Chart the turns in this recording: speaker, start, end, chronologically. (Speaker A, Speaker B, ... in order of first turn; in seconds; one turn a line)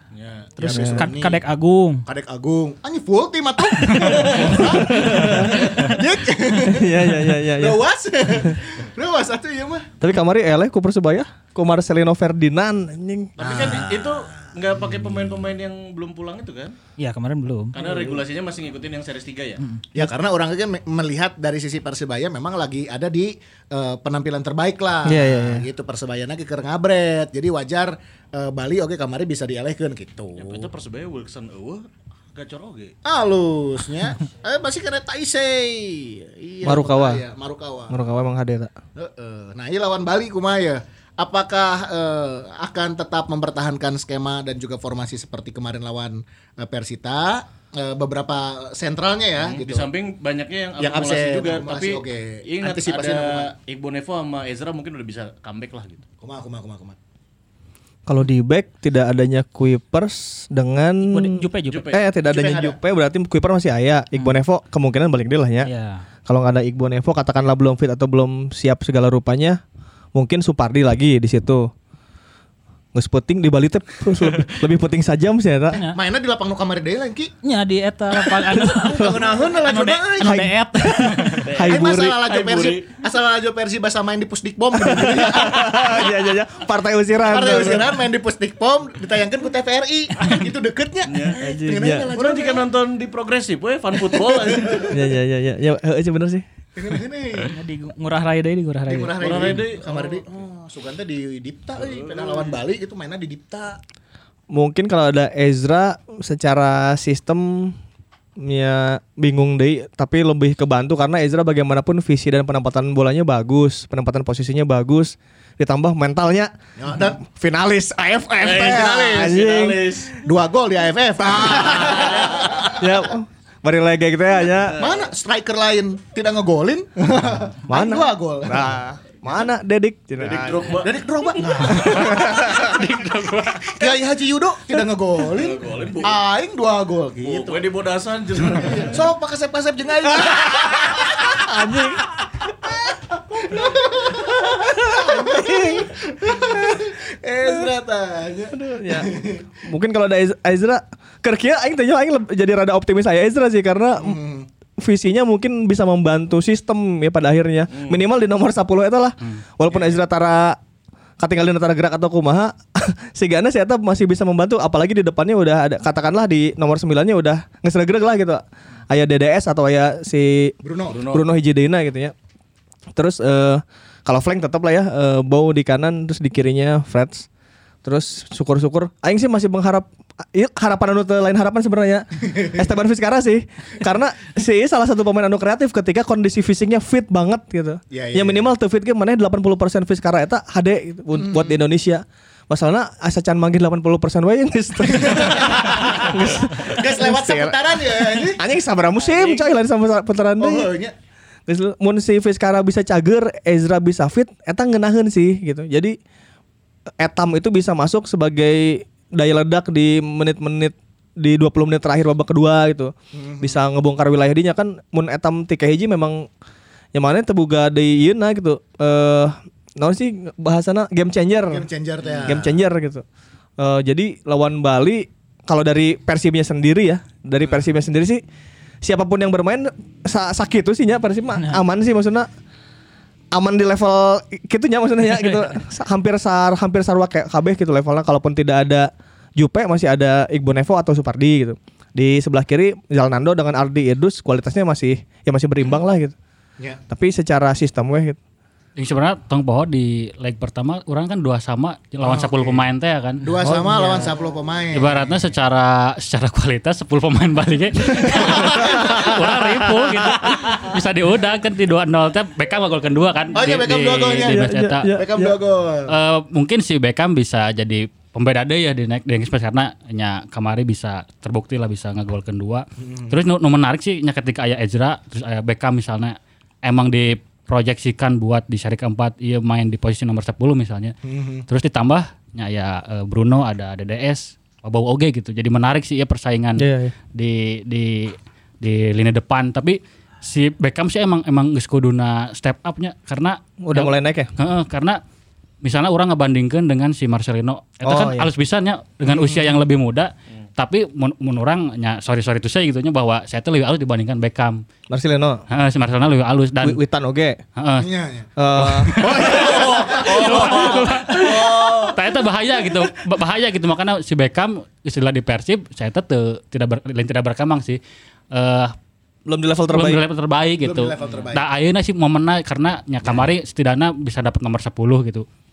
Speaker A: 0.1-0.5
Speaker B: 0.6-1.4
Speaker C: 0.6-2.1
Speaker D: 0.6-1.1
Speaker B: 2.0-9.9
Speaker A: 4.0-5.8
Speaker D: 4.3-5.5
Speaker D: 6.6-7.8
Speaker D: 10.0-13.4
Speaker A: 13.4-16.7
Speaker B: 13.4-14.3
Speaker C: 17.0-17.8
Speaker A: 17.7-19.6
Speaker B: 19.9-30.7
Speaker D: 25.0-25.6
Speaker A: 30.4-32.9
Speaker B: 33.0-38.0
Speaker D: 36.6-37.2
Speaker D: 37.9-38.7
Speaker B: 39.0-49.9
Speaker A: 49.4-56.0
Speaker B: 50.8-53.5
Speaker B: 56.2-57.0
Speaker D: 58.0-65.7
Speaker C: 61.0-62.0
Speaker A: 61.7-62.0
Speaker B: 62.2-62.8
Speaker C: 65.6-66.0
Speaker D: 66.2-69.6
Speaker D: 70.1-71.7
Speaker D: 72.9-75.8
Speaker C: 75.7-76.0
Speaker B: 75.9-77.3
Speaker C: 77.4-81.5
Speaker D: 78.6-79.4
Speaker B: 78.8-80.4
Speaker D: 80.2-82.2
Speaker A: 81.4-82.9
Speaker B: 81.6-86.2
Speaker D: 84.7-87.9
Speaker B: 87.2-92.6
Speaker A: 91.0-91.4
Speaker D: 91.4-92.1
Speaker A: 92.1-95.0
Speaker B: 94.0-94.9
Speaker D: 94.9-96.9
Speaker B: 96.8-97.5
Speaker C: 97.5-99.5
Speaker B: 98.8-103.8
Speaker A: 99.2-100.3
Speaker A: 101.8-102.6
Speaker D: 104.5-107.8
Speaker D: 108.4-116.5
Speaker B: 116.8-117.2
Speaker D: 117.2-120.0
Speaker A: 118.4-120.2
Speaker B: 118.6-119.4
Speaker B: 120.2-122.8
Speaker D: 121.2-121.9
Speaker A: 121.9-122.4
Speaker D: 122.7-124.8
Speaker B: 124.8-128.8
Speaker D: 127.7-130.7
Speaker A: 130.2-130.9
Speaker B: 130.8-132.6
Speaker D: 131.7-132.8
Speaker E: 132.2-133.8
Speaker B: 133.7-137.6
Speaker A: 135.2-136.2
Speaker A: 137.2-139.1
Speaker B: 138.5-141.9
Speaker D: 140.0-142.0
Speaker B: 142.5-149.4
Speaker D: 144.6-145.9
Speaker D: 148.5-154.2
Speaker B: 154.0-154.5
Speaker D: 154.8-160.6
Speaker A: 157.7-158.0
Speaker D: 161.2-172.1
Speaker B: 170.6-171.0
Speaker A: 170.9-171.3
Speaker D: 172.9-177.3
Speaker D: 177.8-200.7
Speaker B: 187.9-188.4
Speaker B: 191.1-191.6
Speaker B: 194.9-198.4
Speaker A: 199.0-199.5
Speaker B: 200.4-200.9
Speaker D: 201.5-205.9
Speaker D: 207.0-216.3
Speaker B: 213.1-213.6
Speaker D: 216.9-221.7
Speaker B: 221.5-222.6
Speaker A: 222.0-222.3
Speaker D: 222.2-223.0
Speaker D: 223.6-228.2
Speaker D: 228.8-232.3
Speaker D: 233.3-246.1
Speaker D: 246.9-248.2
Speaker E: 248.8-253.2
Speaker B: 252.0-252.6
Speaker B: 253.2-255.4
Speaker C: 253.3-254.1
Speaker D: 253.4-254.1
Speaker E: 254.7-264.9
Speaker B: 257.9-259.2
Speaker D: 258.6-259.1
Speaker B: 263.3-265.9
Speaker D: 264.2-265.3
Speaker E: 265.9-280.9
Speaker B: 272.8-273.1
Speaker B: 281.1-281.4
Speaker E: 281.5-295.0
Speaker D: 286.6-286.9
Speaker D: 293.6-294.3
Speaker E: 295.6-304.6
Speaker D: 297.8-298.3
Speaker B: 299.1-299.5
Speaker D: 304.9-305.4
Speaker E: 305.5-306.8
Speaker D: 306.6-307.4
Speaker E: 307.6-307.9
Speaker B: 307.8-308.3
Speaker D: 308.4-309.2
Speaker E: 308.5-317.8
Speaker B: 308.9-310.8
Speaker A: 309.1-312.0
Speaker E: 318.3-318.7
Speaker D: 319.3-320.0
Speaker E: 319.7-325.2
Speaker B: 320.6-321.4
Speaker A: 321.0-321.2